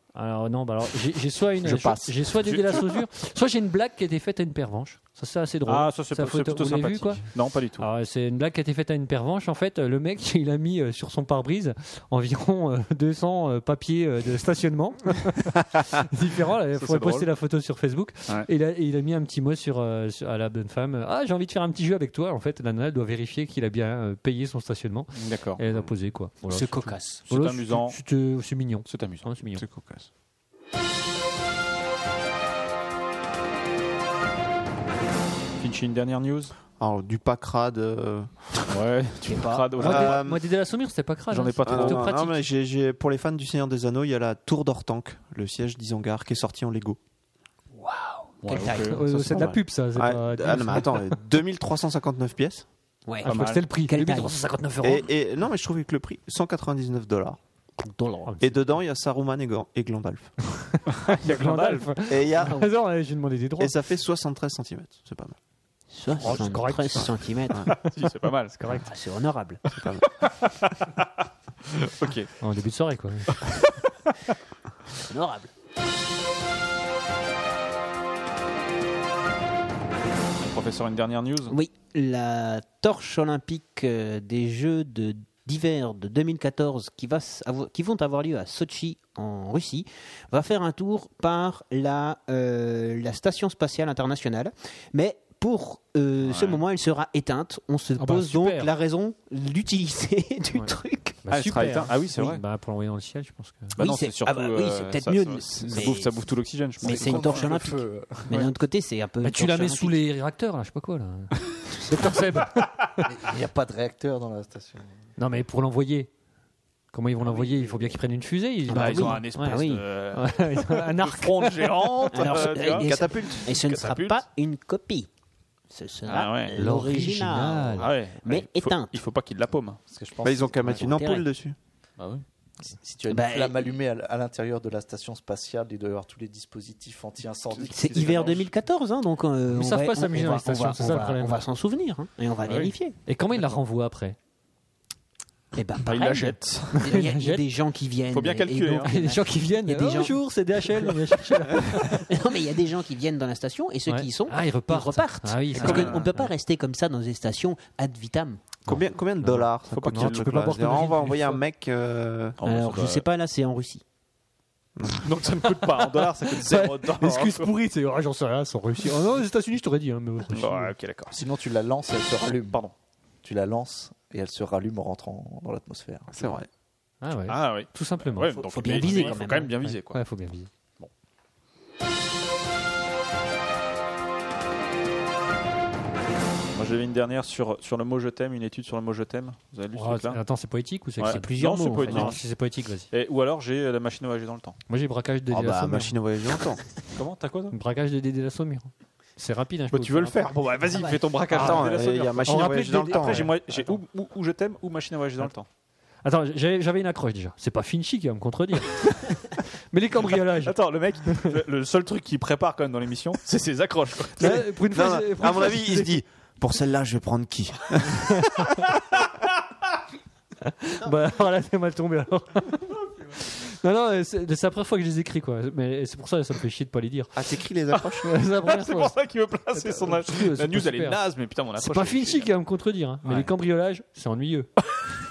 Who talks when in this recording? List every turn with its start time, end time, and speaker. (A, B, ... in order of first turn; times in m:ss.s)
0:00.1-0:07.3 A
0:01.6-0:02.2 B
0:01.6-0:03.0 C
0:05.6-0:07.9 C
0:07.8-0:29.6 A
0:16.8-0:17.3 C
0:25.1-0:25.6 C
0:26.5-0:27.2 D
0:27.3-0:28.0 C
0:28.9-0:29.3 C
0:29.6-0:30.1 B
0:35.6-0:36.5 C
0:36.8-0:38.5 B
0:38.7-0:40.2 C
0:39.2-0:40.1 D
0:39.8-0:40.4 B
0:39.8-0:42.4 A
0:41.3-0:42.1 C
0:41.6-0:47.0 B
0:47.8-0:49.0 D
0:48.4-0:49.5 C
0:48.8-0:51.2 A
0:49.3-0:52.6 B
0:53.0-0:54.4 D
0:53.2-0:55.1 A
0:53.2-0:53.6 C
0:54.8-0:57.4 B
0:57.8-0:58.3 D
0:58.2-0:58.6 A
0:58.4-1:00.6 B
1:00.7-1:03.8 A
1:01.0-1:01.9 C
1:02.1-1:02.6 B
1:03.6-1:05.4 B
1:05.9-1:07.7 D
1:06.2-1:07.9 A
1:07.8-1:08.6 C
1:08.6-1:08.9 A
1:08.9-1:09.6 D
1:09.7-1:10.1 B
1:10.2-1:11.1 C
1:11.6-1:12.3 C
1:12.4-1:13.3 A
1:13.3-1:13.9 C
1:15.1-1:15.5 D
1:20.4-1:21.5 C
1:21.5-1:41.2 D
1:36.2-1:36.6 C
1:38.0-1:38.7 A
1:40.6-1:43.8 A
1:41.3-1:42.4 C
1:43.8-1:47.4 C
1:43.8-1:50.0 D
1:46.8-1:48.4 E
1:49.2-1:53.0 A
1:53.0-1:54.9 E
1:55.2-1:56.1 A
1:56.9-2:02.1 A
1:57.2-1:57.9 E
1:58.7-1:59.9 D
1:58.7-2:04.2 C
2:02.1-2:05.1 D
2:02.3-2:03.6 B
2:05.7-2:09.0 D
2:06.1-2:06.6 C
2:06.6-2:07.9 B
2:07.8-2:09.8 C
2:09.9-2:10.5 E
2:10.2-2:11.6 B
2:10.6-2:11.2 D
2:12.0-2:12.2 C
2:12.6-2:18.5 E
2:13.1-2:13.8 D
2:17.7-2:23.0 D
2:19.5-2:21.4 A
2:22.4-2:22.7 C
2:23.0-2:24.2 A
2:25.5-2:38.6 D
2:25.8-2:27.0 C
2:26.7-2:27.4 A
2:28.1-2:28.9 C
2:28.8-2:32.1 A
2:33.9-2:36.3 A
2:35.6-2:36.1 C
2:38.6-2:42.4 B
2:38.7-2:41.4 A
2:39.8-2:40.3 C
2:42.4-2:43.0 C
2:42.4-2:43.8 D
2:44.8-2:45.0 B
2:45.0-2:47.5 C
2:45.4-2:50.7 A
2:50.3-2:51.2 C
2:51.1-2:52.6 E
2:53.2-2:56.4 E
2:56.1-2:56.5 B
2:57.0-3:00.5 A
2:57.3-3:00.0 C
2:58.4-2:59.5 D
3:06.5-3:10.2 C
3:09.7-3:12.9 A
3:11.0-3:12.2 C
3:11.1-3:12.1 D
3:12.9-3:14.6 C
3:14.7-3:16.0 A
3:15.3-3:16.6 B
3:16.9-3:17.6 C
3:17.5-3:20.3 A
3:19.7-3:25.5 C
3:20.7-3:21.0 D
3:21.3-3:23.7 A
3:21.3-3:23.3 B
3:26.0-3:30.6 A
3:30.4-3:34.4 C
3:34.2-3:36.0 A
3:34.2-3:38.6 B
3:40.4-3:47.2 A
3:47.1-3:48.1 B
3:47.7-3:52.3 C
3:48.0-3:48.9 A
3:49.5-3:51.0 A
3:51.6-3:54.5 A